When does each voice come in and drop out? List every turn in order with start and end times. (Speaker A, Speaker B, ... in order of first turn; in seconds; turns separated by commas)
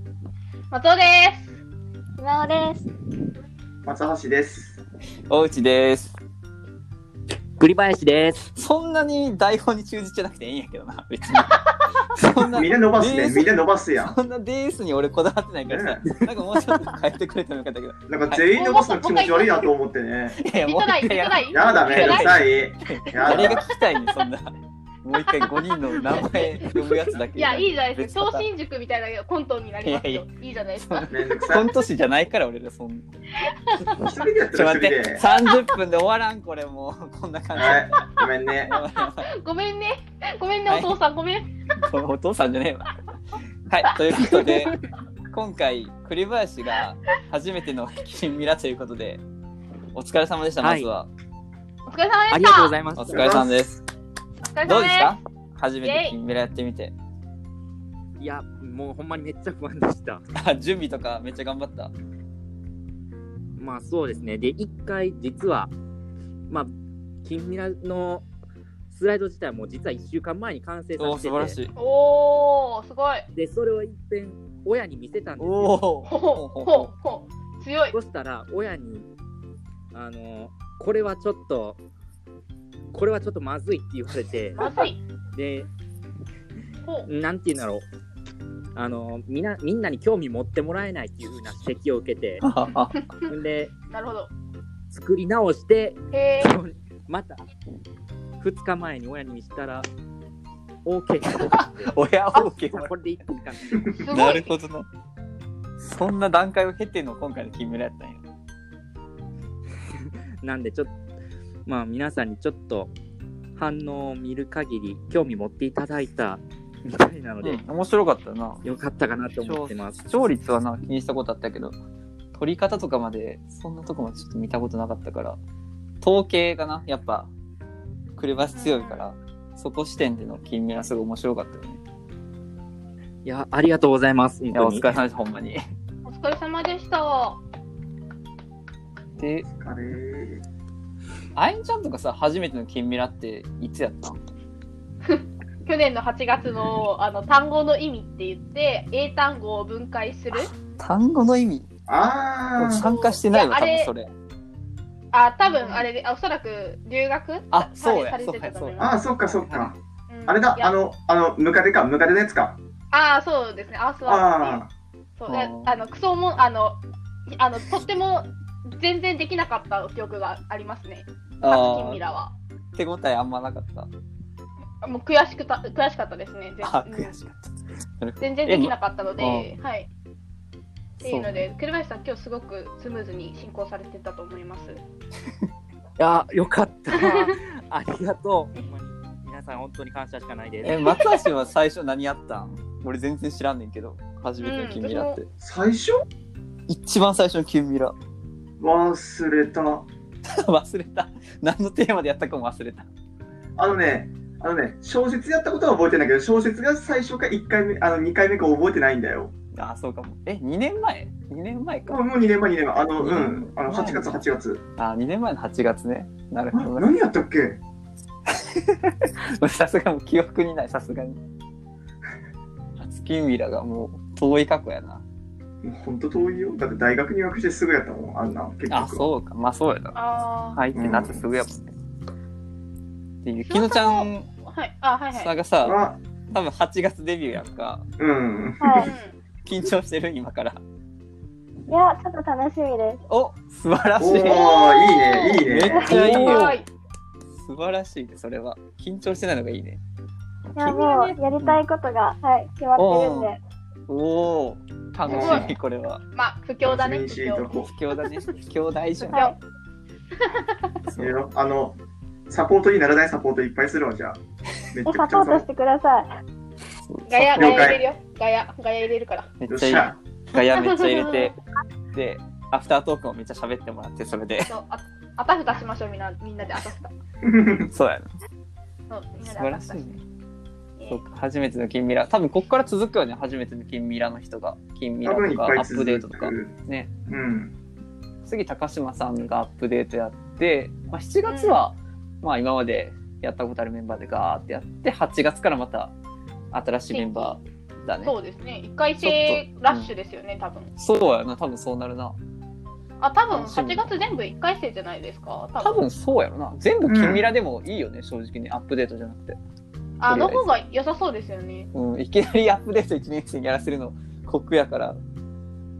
Speaker A: 0.7-1.6, Speaker B: 2.2-2.8, Speaker C: 3.8-4.8, Speaker D: 5.3-6.2, Speaker E: 7.6-8.5, Speaker D: 8.5-18.5, Speaker A: 11.4-11.8, Speaker C: 12.4-14.2, Speaker C: 15.7-16.3, Speaker C: 18.1-20.4, Speaker A: 18.5-19.7, Speaker D: 20.4-28.5, Speaker A: 20.6-22.5, Speaker C: 21.5-23.7, Speaker A: 23.3-24.2, Speaker A: 25.1-31.4, Speaker D: 29.8-30.3, Speaker D: 30.8-33.0, Speaker C: 31.1-31.7, Speaker A: 33.4-34.1, Speaker C: 33.9-35.2, Speaker D: 34.5-38.0, Speaker A: 35.3-35.6, Speaker C: 37.5-38.8, Speaker D: 38.6-39.3, Speaker A: 38.7-41.5, Speaker D: 40.7-41.0, Speaker D: 41.8-44.8, Speaker D: 45.3-49.2, Speaker D: 49.9-51.1, Speaker E: 50.6-50.9, Speaker A: 51.9-52.7, Speaker E: 52.3-53.4, Speaker D: 53.0-53.8, Speaker C: 53.1-53.7, Speaker A: 54.5-55.1, Speaker D: 54.6-56.9, Speaker A: 55.8-56.1, Speaker E: 58.2-60.2, Speaker D: 60.3-61.9, Speaker E: 63.6-65.7, Speaker E: 67.2-68.2, Speaker E: 68.9-71.6, Speaker D: 71.0-71.7, Speaker A: 71.8-73.2, Speaker E: 73.3-75.8, Speaker D: 75.4-76.9, Speaker A: 76.1-78.0, Speaker E: 77.9-79.1, Speaker E: 79.9-81.8, Speaker E: 82.9-84.7, Speaker A: 84.6-85.0, Speaker E: 85.3-85.7, Speaker A: 86.8-87.1, Speaker E: 87.1-87.8, Speaker E: 88.7-92.4, Speaker D: 92.4-93.0, Speaker A: 93.0-93.3, Speaker E: 93.2-93.7, Speaker A: 93.9-94.3, Speaker E: 94.9-97.4, Speaker A: 96.1-96.5, Speaker E: 98.4-99.9, Speaker E: 100.8-104.0, Speaker D: 101.3-102.9, Speaker D: 104.0-104.9, Speaker A: 104.0-104.5, Speaker D: 105.8-108.2, Speaker E: 109.9-110.9, Speaker E: 111.7-112.9, Speaker E: 113.5-117.6, Speaker D: 117.4-118.6, Speaker E: 118.6-120.0, Speaker D: 119.4-121.7, Speaker D: 122.3-125.4, Speaker D: 126.0-127.3, Speaker D: 128.2-131.8, Speaker A: 128.5-129.1, Speaker E: 133.2-135.0, Speaker D: 134.5-135.6, Speaker A: 136.1-137.4, Speaker D: 139.2-139.4, Speaker C: 139.2-140.4, Speaker D: 141.3-144.2, Speaker A: 145.0-150.5, Speaker D: 150.3-151.7, Speaker C: 151.9-152.9, Speaker D: 152.6-154.1, Speaker A: 152.8-153.9, Speaker A: 155.1-158.9, Speaker D: 155.6-155.8, Speaker D: 157.5-159.7, Speaker C: 158.8-162.6, Speaker A: 160.1-160.8, Speaker A: 162.9-164.6, Speaker C: 164.1-164.7, Speaker A: 165.2-172.3, Speaker D: 165.3-165.8, Speaker D: 171.4-172.0, Speaker D: 172.8-173.9, Speaker A: 174.8-177.1, Speaker D: 176.6-179.5, Speaker A: 178.2-179.9, Speaker D: 181.0-181.4, Speaker A: 181.0-184.8, Speaker E: 186.0-190.8, Speaker A: 186.9-187.2, Speaker D: 190.6-195.2, Speaker A: 190.8-191.3, Speaker A: 194.4-195.2, Speaker C: 195.4-196.0, Speaker D: 196.7-197.9, Speaker C: 198.6-199.8, Speaker D: 200.2-202.9, Speaker C: 203.6-209.3, Speaker D: 209.5-212.0, Speaker C: 211.9-214.6, Speaker D: 213.0-214.2, Speaker D: 214.8-216.9, Speaker C: 216.5-217.6, Speaker D: 218.3-221.2, Speaker D: 222.8-225.0, Speaker C: 225.6-229.1, Speaker D: 228.7-229.9, Speaker A: 229.9-230.6, Speaker D: 230.5-231.7, Speaker C: 230.7-231.2, Speaker D: 233.2-234.3, Speaker A: 233.4-235.3, Speaker D: 235.1-235.8, Speaker C: 235.6-236.0, Speaker D: 236.3-237.8, Speaker C: 238.0-238.9, Speaker B: 238.6-238.9, Speaker A: 238.8-239.1, Speaker D: 239.4-240.6, Speaker B: 241.7-243.0, Speaker D: 243.1-244.5, Speaker C: 244.0-246.5, Speaker A: 244.2-246.7, Speaker D: 245.4-246.6, Speaker D: 247.3-249.8, Speaker B: 250.6-253.4, Speaker A: 250.6-251.2, Speaker D: 252.8-253.3, Speaker D: 253.9-256.0, Speaker C: 255.1-255.5, Speaker A: 255.1-255.5, Speaker A: 256.1-257.5, Speaker C: 256.6-257.7, Speaker D: 257.5-259.3, Speaker A: 260.2-260.7, Speaker D: 260.9-261.1, Speaker C: 260.9-261.8, Speaker C: 262.3-264.2, Speaker C: 264.7-265.5, Speaker B: 264.8-266.1, Speaker D: 266.9-267.8, Speaker A: 267.1-269.3, Speaker C: 267.3-267.8, Speaker D: 269.4-271.3, Speaker C: 269.5-270.0, Speaker A: 270.4-271.3, Speaker D: 271.9-274.5, Speaker A: 274.5-276.9, Speaker C: 277.2-277.7, Speaker D: 277.7-278.1, Speaker A: 278.9-279.9, Speaker D: 279.2-280.0, Speaker D: 280.9-286.9, Speaker C: 285.0-286.5, Speaker C: 287.1-287.5, Speaker D: 288.2-295.9, Speaker A: 291.2-291.6, Speaker D: 296.5-298.1, Speaker A: 296.9-297.4, Speaker A: 298.0-300.7, Speaker D: 299.0-299.9, Speaker D: 300.8-302.2, Speaker A: 303.0-305.8, Speaker D: 303.3-303.9, Speaker D: 305.6-309.4, Speaker C: 306.9-307.3, Speaker A: 310.0-311.7, Speaker D: 310.1-310.5, Speaker D: 311.7-315.0